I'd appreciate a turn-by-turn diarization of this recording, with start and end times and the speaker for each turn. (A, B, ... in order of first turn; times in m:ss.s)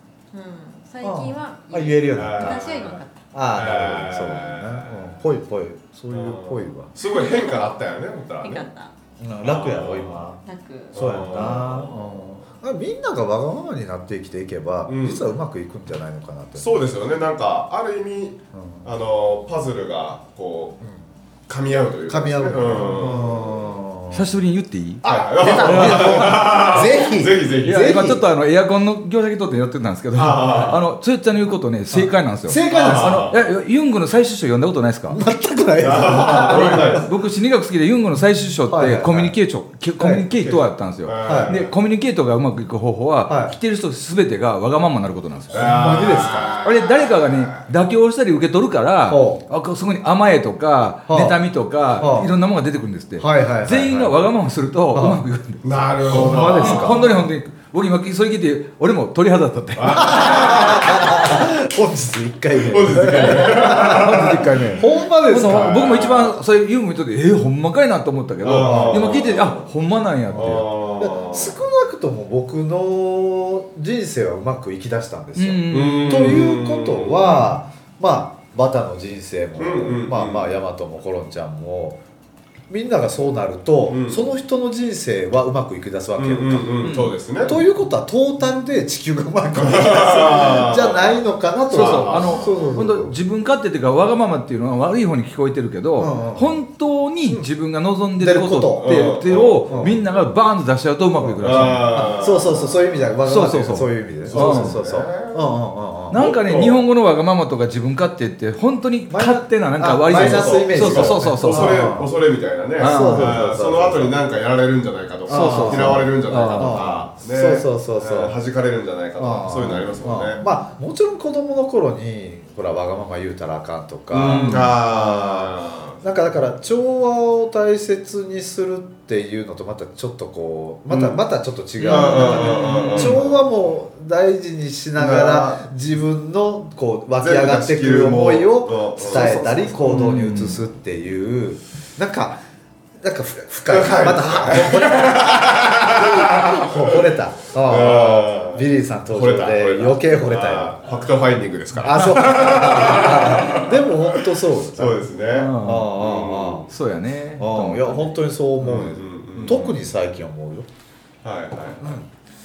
0:00.3-0:03.2 A
0:01.0-0:06.9 B
0:02.1-0:03.0 C
0:03.5-0:05.2 C
0:06.1-0:08.7 C
0:07.0-0:07.7 A
0:08.4-0:08.9 A
0:09.2-0:10.4 B
0:09.4-0:10.3 C
0:10.4-0:11.4 A
0:10.9-0:12.4 C
0:10.9-0:16.8 B
0:14.8-0:15.3 C
0:16.6-0:20.8 C
0:18.5-0:18.9 B
0:20.8-0:21.1 B
0:21.5-0:23.8 C
0:22.1-0:24.3 B
0:24.1-0:26.6 D
0:25.0-0:28.1 C
0:25.0-0:28.2 B
0:27.6-0:35.2 D
0:30.1-0:30.8 C
0:31.9-0:33.3 B
0:32.6-0:33.4 C
0:35.1-0:37.1 B
0:35.8-0:37.1 C
0:36.4-1:00.7 D
0:38.7-0:39.4 B
0:40.0-0:40.2 B
0:40.4-0:41.7 C
0:41.2-0:41.6 B
0:43.3-0:43.6 B
0:45.5-0:46.6 B
0:45.5-0:47.7 C
0:49.1-0:49.4 B
0:51.1-0:51.4 B
0:52.0-0:52.3 B
0:53.2-0:54.1 B
0:54.9-0:55.2 B
0:55.6-0:57.0 C
0:56.1-0:57.3 B
0:59.8-1:01.3 C
0:59.9-1:06.1 B
1:02.6-1:04.6 C
1:03.4-1:10.9 D
1:05.3-1:06.4 C
1:08.4-1:09.6 C
1:08.6-1:09.3 B
1:10.3-1:11.6 C
1:10.3-1:22.0 B
1:15.4-1:16.3 D
1:15.7-1:17.4 C
1:17.2-1:17.6 D
1:19.6-1:20.5 C
1:22.7-1:33.2 B
1:23.9-1:24.3 C
1:26.2-1:27.6 C
1:26.8-1:27.2 D
1:29.5-1:32.6 C
1:31.7-1:42.2 D
1:36.0-1:36.6 B
1:38.2-1:40.0 B
1:38.8-1:40.0 C
1:41.2-1:46.3 B
1:41.4-1:43.2 C
1:43.2-1:44.8 D
1:44.2-1:46.8 C
1:46.1-1:51.9 D
1:49.1-1:52.1 B
1:50.0-2:00.4 C
1:52.8-1:53.5 D
1:52.8-1:54.2 B
1:55.3-1:56.9 D
1:55.3-1:58.4 B
1:59.2-2:22.4 B
2:04.1-2:06.2 C
2:04.2-2:04.7 D
2:10.9-2:11.2 C
2:11.8-2:13.4 C
2:11.8-2:13.2 D
2:15.0-2:15.6 C
2:17.2-2:20.1 C
2:19.0-2:20.6 D
2:23.0-2:30.8 B
2:23.6-2:36.7 C
2:31.8-2:36.7 B
2:35.3-2:35.9 D
2:36.7-2:38.0 D
2:37.4-2:40.7 B
2:38.6-2:39.9 C
2:41.2-2:42.0 C
2:41.8-2:42.1 B